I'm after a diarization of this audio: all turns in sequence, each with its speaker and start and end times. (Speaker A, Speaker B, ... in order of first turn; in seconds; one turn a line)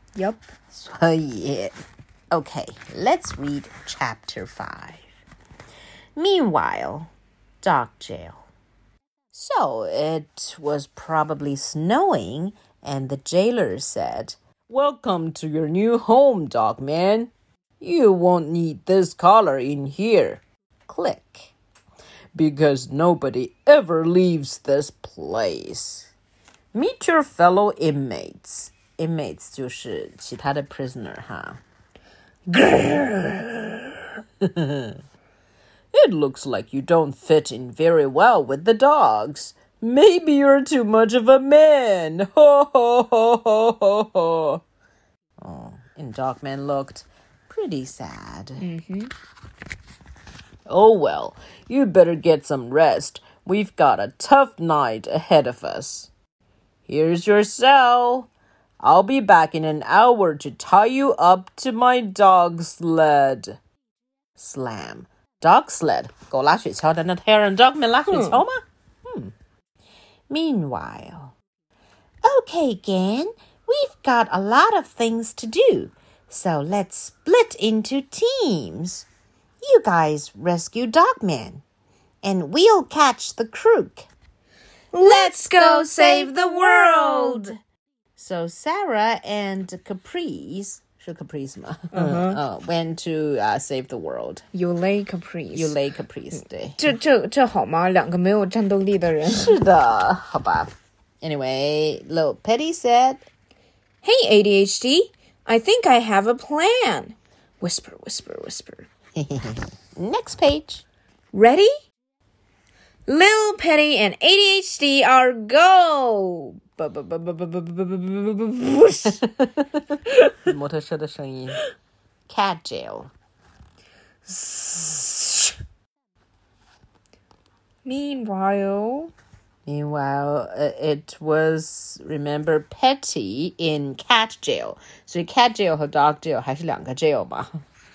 Speaker A: 0.1-0.5
Speaker B: 0.7-1.8
Speaker B: 2.3-5.0
Speaker B: 6.2-7.1
Speaker B: 7.6-8.4
Speaker B: 9.3-21.5
Speaker B: 22.4-26.1
Speaker B: 26.7-31.6
Speaker A: 32.5-33.1
Speaker B: 32.6-33.4
Speaker B: 34.4-35.0
Speaker B: 35.9-44.6
Speaker B: 45.4-48.6
Speaker A: 48.6-49.1
Speaker B: 50.7-56.1
Speaker B: 56.9-58.3
Speaker B: 58.8-63.6
Speaker B: 64.4-69.3
Speaker A: 68.1-68.4
Speaker B: 70.3-71.3
Speaker B: 72.2-79.1
Speaker B: 79.6-81.6
Speaker B: 82.2-84.1
Speaker A: 84.9-87.5
Speaker B: 85.0-87.6
Speaker B: 88.2-94.4
Speaker A: 91.9-92.4
Speaker A: 94.5-95.8
Speaker B: 95.5-96.8
Speaker A: 96.8-99.6
Speaker B: 99.3-103.2
Speaker A: 104.0-108.9
Speaker B: 109.2-110.8
Speaker A: 111.3-111.7
Speaker A: 113.1-119.2
Speaker B: 119.2-119.8
Speaker B: 120.4-121.6
Speaker B: 122.3-123.1
Speaker A: 124.3-125.6
Speaker A: 127.8-129.1
Speaker B: 129.7-137.5